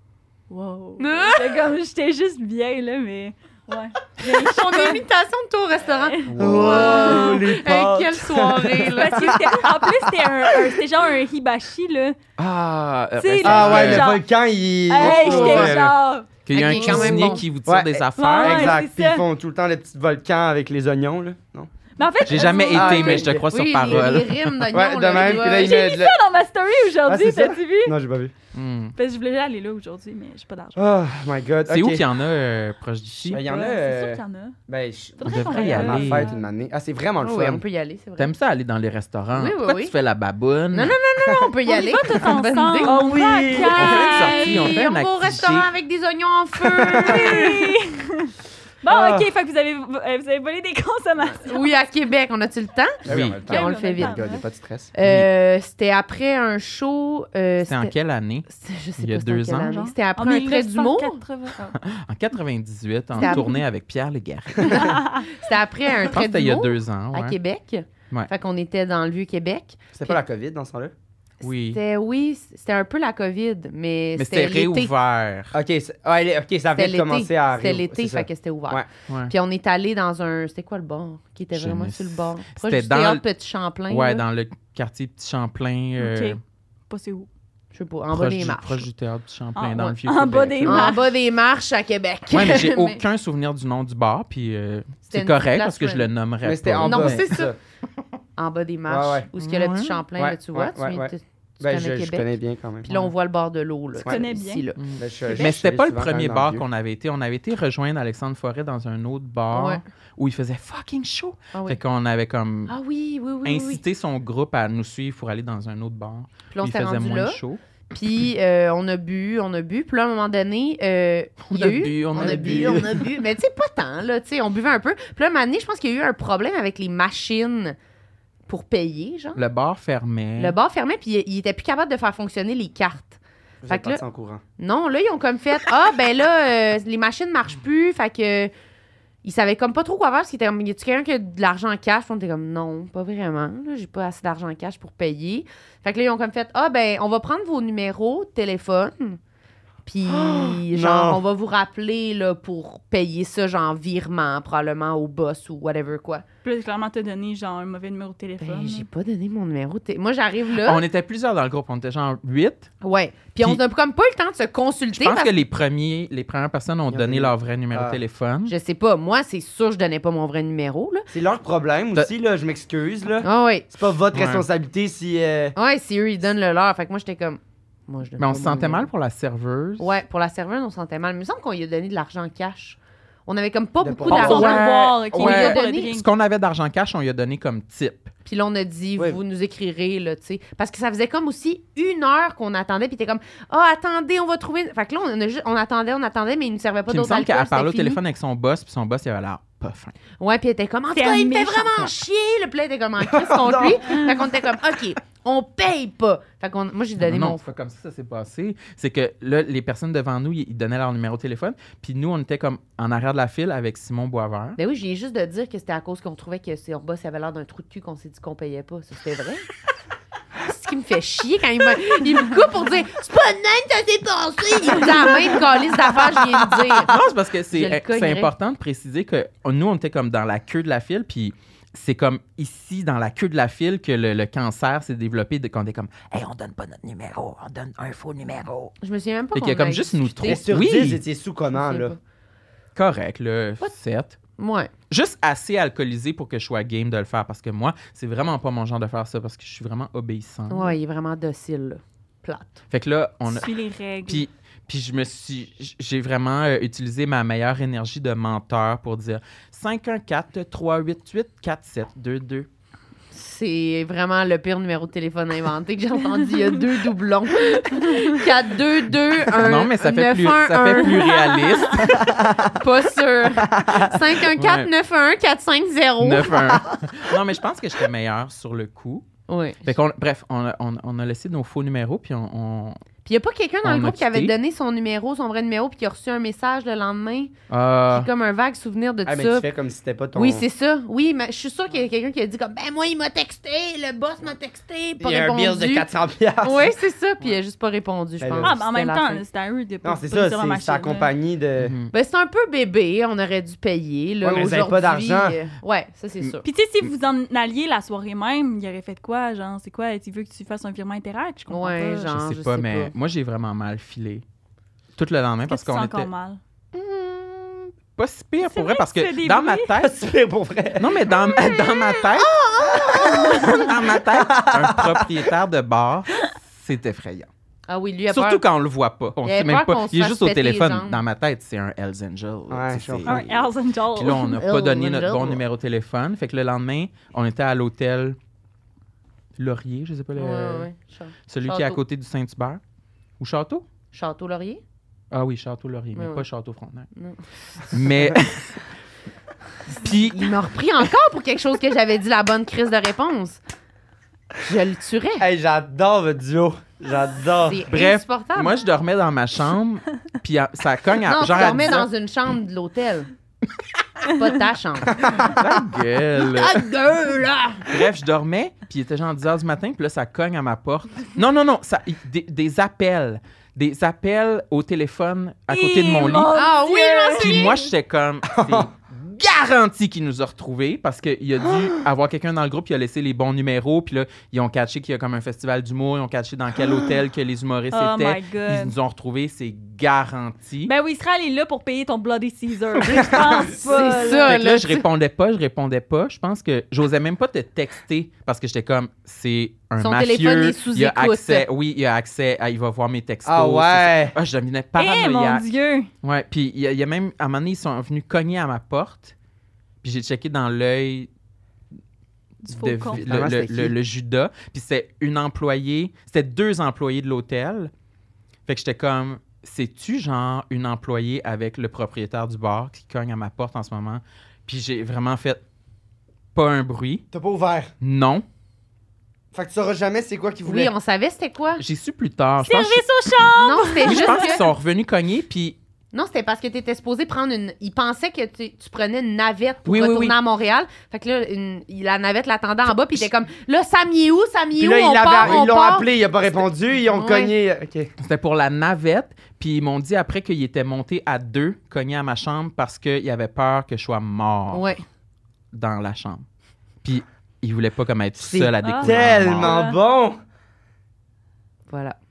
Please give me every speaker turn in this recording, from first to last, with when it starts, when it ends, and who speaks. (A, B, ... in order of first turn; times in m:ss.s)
0:00.5-0:05.0 A
0:01.0-0:01.7 B
0:04.2-0:09.4 B
0:06.0-0:07.4 A
0:06.3-0:06.8 C
0:06.4-0:10.7 D
0:08.9-0:12.2 A
0:12.4-0:14.1 C
0:13.2-0:14.2 A
0:13.4-0:15.9 D
0:14.9-0:17.3 A
0:15.0-0:15.8 B
0:15.0-0:15.8 C
0:16.4-0:18.8 C
0:16.5-0:17.4 B
0:17.6-0:21.7 D
0:18.2-0:19.2 A
0:22.0-0:23.2 A
0:22.2-0:24.6 C
0:22.7-0:24.1 D
0:23.0-0:25.8 B
0:24.7-0:26.2 D
0:25.1-0:28.0 A
0:27.0-0:28.3 D
0:28.5-0:28.9 C
0:28.9-0:30.8 A
0:30.8-0:32.0 D
0:31.7-0:33.4 C
0:33.2-0:34.6 A
0:33.3-0:37.6 D
0:35.2-0:36.4 A
0:35.2-0:36.3 C
0:37.2-0:38.3 B
0:38.2-0:41.0 C
0:39.3-0:39.9 B
0:40.7-0:47.7 B
0:41.3-0:41.5 D
0:41.6-0:44.8 A
0:42.8-0:44.1 D
0:43.8-0:45.7 C
0:46.6-0:47.4 D
0:46.9-0:48.3 A
0:48.8-0:51.7 A
0:48.8-0:49.3 D
0:51.4-0:54.3 B
0:53.0-0:54.9 D
0:53.1-0:53.4 C
0:53.5-0:54.4 A
0:54.9-0:57.9 B
0:55.0-0:55.3 C
0:57.6-0:59.9 C
0:58.5-1:01.2 B
1:00.1-1:01.8 A
1:01.8-1:05.0 C
1:03.1-1:03.6 B
1:03.2-1:03.5 A
1:04.6-1:10.2 B
1:04.7-1:05.2 A
1:06.0-1:07.4 C
1:09.9-1:10.9 D
1:11.4-1:11.8 C
1:11.4-1:14.9 B
1:14.2-1:15.5 C
1:15.5-1:18.9 D
1:16.7-1:24.2 B
1:19.1-1:19.3 C
1:21.5-1:23.2 C
1:23.9-1:26.4 C
1:26.0-1:27.3 A
1:27.7-1:28.9 B
1:28.1-1:31.0 C
1:29.6-1:31.0 A
1:30.6-1:33.0 B
1:32.3-1:37.3 C
1:35.1-1:36.1 B
1:36.4-1:37.6 D
1:36.8-1:37.5 B
1:38.4-1:42.3 B
1:38.9-1:39.3 D
1:39.4-1:40.0 C
1:40.2-1:42.9 D
1:42.8-1:44.8 B
1:44.0-1:44.6 A
1:44.8-1:52.7 C
1:45.0-1:46.6 D
1:49.5-1:49.8 B
1:51.5-1:51.8 B
1:52.7-1:53.8 B
1:53.4-1:57.6 C
1:56.5-1:57.4 B
1:57.9-2:07.8 B
2:01.4-2:03.1 C
2:02.1-2:03.0 D
2:08.5-2:09.4 B
2:09.4-2:10.6 C
2:10.4-2:14.0 B
2:13.6-2:14.4 D
2:14.6-2:18.5 B
2:19.2-2:29.2 B
2:29.8-2:36.2 B
2:30.0-2:31.2 D
2:36.4-2:38.8 A
2:38.4-2:40.8 B
2:40.6-2:42.7 C
2:42.8-2:45.3 B
2:44.9-2:48.5 C
2:46.9-2:48.0 D
2:48.5-2:51.1 B
2:51.1-2:55.6 D
2:53.2-2:53.7 B
2:54.1-2:54.4 C
2:55.6-2:58.9 B
2:58.2-2:59.9 C
2:59.8-3:05.9 B
3:03.8-3:04.6 D
3:04.1-3:06.0 A
3:04.1-3:08.1 C
3:08.2-3:18.0 B
3:16.9-3:20.0 C
3:20.2-3:27.4 B
3:20.9-3:21.9 A
3:23.0-3:24.0 D
3:23.9-3:24.1 A
3:27.0-3:34.6 C
3:34.6-3:39.5 B
3:40.4-3:47.0 B
3:46.5-3:58.7 C
3:47.5-3:48.3 B
3:58.8-4:00.5 B
3:59.3-4:01.0 C
4:00.2-4:02.0 D
4:01.5-4:02.0 B
4:02.8-4:04.2 C
4:04.4-4:04.7 B
4:04.9-4:10.8 C
4:10.5-4:12.6 B
4:12.7-4:13.5 C
4:13.3-4:14.2 A
4:14.0-4:22.5 C
4:23.1-4:36.6 B
4:29.2-4:32.1 C
4:31.9-4:32.6 D
4:33.4-4:34.1 D
4:34.3-4:34.7 C
4:36.0-4:39.0 C
4:39.3-4:39.7 B
4:39.6-4:42.8 C
4:43.0-4:47.3 B
4:43.6-4:44.3 C
4:47.5-4:48.1 C
4:47.9-4:49.5 B
4:49.0-4:50.4 D
4:50.1-4:55.9 B
4:55.0-4:56.7 D
4:56.4-4:59.2 B
4:58.2-4:58.5 D
4:58.4-5:01.1 A
4:59.8-5:01.7 D
5:01.6-5:01.9 C
5:01.9-5:06.4 B
5:04.2-5:05.4 D
5:06.4-5:12.1 A
5:11.5-5:12.9 B
5:11.9-5:14.2 C
5:15.0-5:16.1 C
5:15.5-5:16.4 A
5:16.7-5:17.6 B
5:18.0-5:20.0 C
5:18.4-5:19.7 A
5:19.8-5:21.0 D
5:20.8-5:22.3 C
5:21.3-5:23.7 B
5:22.6-5:23.5 D
5:22.9-5:27.3 C
5:24.1-5:25.2 D
5:27.7-5:28.4 B
5:28.1-5:33.4 C
5:29.2-5:31.0 B
5:32.5-5:33.3 D
5:33.0-5:34.3 A
5:34.0-5:38.2 C
5:34.2-5:35.4 B
5:39.4-5:40.7 C
5:40.1-5:41.8 B
5:41.3-5:42.6 C
5:43.2-5:43.6 C
5:43.9-5:44.6 B
5:45.1-5:46.9 C
5:45.9-5:46.2 B
5:46.9-5:47.8 B
5:47.6-5:48.6 C
5:49.7-5:50.4 C
5:49.7-5:53.4 B
5:54.4-5:55.2 B
5:55.2-5:57.6 D
5:57.4-5:58.6 B
5:57.7-6:01.9 C
6:01.0-6:03.1 B
6:04.1-6:05.2 B
6:04.9-6:05.4 D
6:05.2-6:06.7 C
6:06.1-6:07.8 B
6:07.6-6:16.4 C
6:15.5-6:17.6 A
6:16.3-6:17.6 B
6:17.2-6:30.7 C
6:18.3-6:18.7 D
6:27.7-6:28.7 A
6:30.6-6:34.4 A
6:32.8-6:33.6 D
6:33.6-6:34.8 B
6:34.2-6:45.4 C
6:39.8-6:41.5 B
6:43.2-6:44.1 D
6:44.8-6:45.9 A
6:46.0-6:49.1 C
6:49.8-6:51.1 C
6:52.4-6:53.0 A
6:52.5-6:57.7 C
6:52.9-6:53.7 D
6:58.5-7:05.4 C
7:06.3-7:07.0 C
7:07.1-7:07.7 D
7:07.8-7:08.2 C
7:09.3-7:10.7 D
7:10.4-7:11.6 B
7:11.6-7:12.8 C
7:12.4-7:14.3 A
7:13.3-7:14.5 B
7:13.8-7:15.6 C
7:15.9-7:25.9 B
7:19.6-7:20.2 C
7:24.6-7:27.9 D
7:25.2-7:25.4 C
7:26.9-7:27.3 B
7:28.0-7:34.8 C
7:34.5-7:34.8 B
7:35.5-7:36.2 C
7:36.8-7:39.6 C
7:38.2-7:40.2 D
7:38.6-7:39.8 A
7:41.7-7:42.0 B